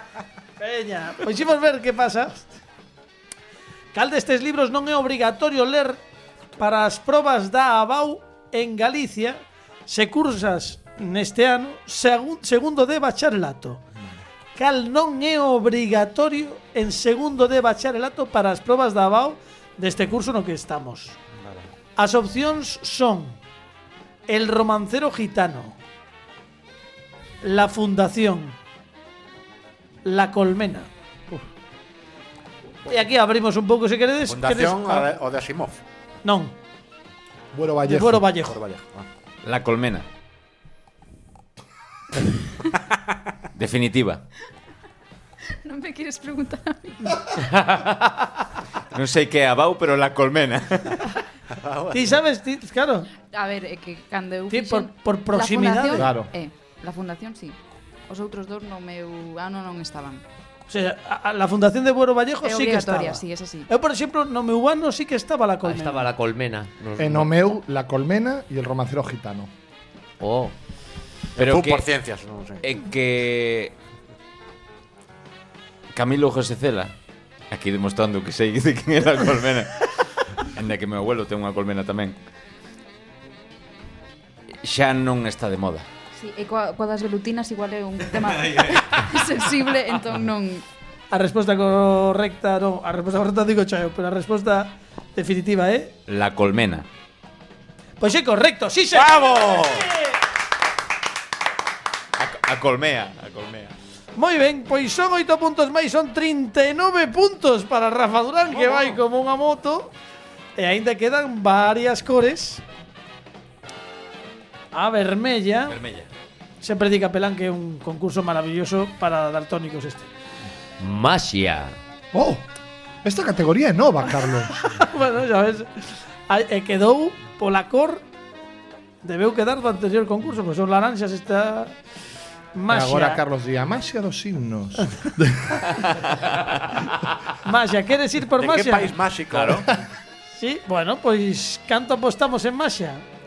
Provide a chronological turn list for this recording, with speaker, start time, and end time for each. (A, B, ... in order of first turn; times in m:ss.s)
0:00.6-0:02.5 A
0:03.9-0:06.0 A
0:06.6-0:13.8 A
0:14.6-0:21.2 A
0:21.4-0:21.7 B
0:22.0-0:23.4 A
0:24.3-0:25.8 A
0:27.4-0:28.6 A
0:30.0-0:31.4 A
0:32.9-0:35.1 A
0:34.2-0:35.8 C
0:36.2-0:36.5 A
0:37.5-0:38.3 D
0:37.8-0:38.6 A
0:38.4-0:39.0 C
0:39.4-0:40.0 B
0:43.5-0:44.2 B
0:45.6-0:47.3 E
0:48.9-0:51.2 B
0:51.6-0:52.2 C
0:51.9-0:53.1 A
0:53.3-1:00.2 E
0:54.5-0:56.1 A
0:55.9-0:56.3 D
1:00.7-1:06.1 A
1:02.4-1:03.7 E
1:05.6-1:07.3 F
1:07.0-1:09.5 D
1:10.2-1:10.5 F
1:11.4-1:11.9 B
1:11.4-1:12.6 C
1:12.6-1:13.7 B
1:15.9-1:16.9 B
1:17.5-1:22.2 B
1:24.6-1:25.8 B
1:26.1-1:30.6 E
1:28.2-1:29.1 B
1:31.1-1:35.9 A
1:36.1-1:36.8 B
1:38.0-1:40.2 A
1:38.9-1:39.9 C
1:42.2-1:43.7 B
1:44.2-1:49.9 A
1:48.5-1:49.0 C
1:50.6-1:52.6 A
1:54.7-1:55.8 A
1:55.7-1:56.1 B
1:56.6-2:00.1 A
2:00.8-2:01.8 F
2:02.1-2:02.4 D
2:03.0-2:04.6 D
2:04.4-2:08.0 A
2:09.0-2:11.7 A
2:12.5-2:13.2 A
2:12.7-2:15.8 D
2:15.8-2:16.6 B
2:17.4-2:19.0 A
2:18.4-2:19.8 C
2:19.3-2:19.6 B
2:20.3-2:23.0 A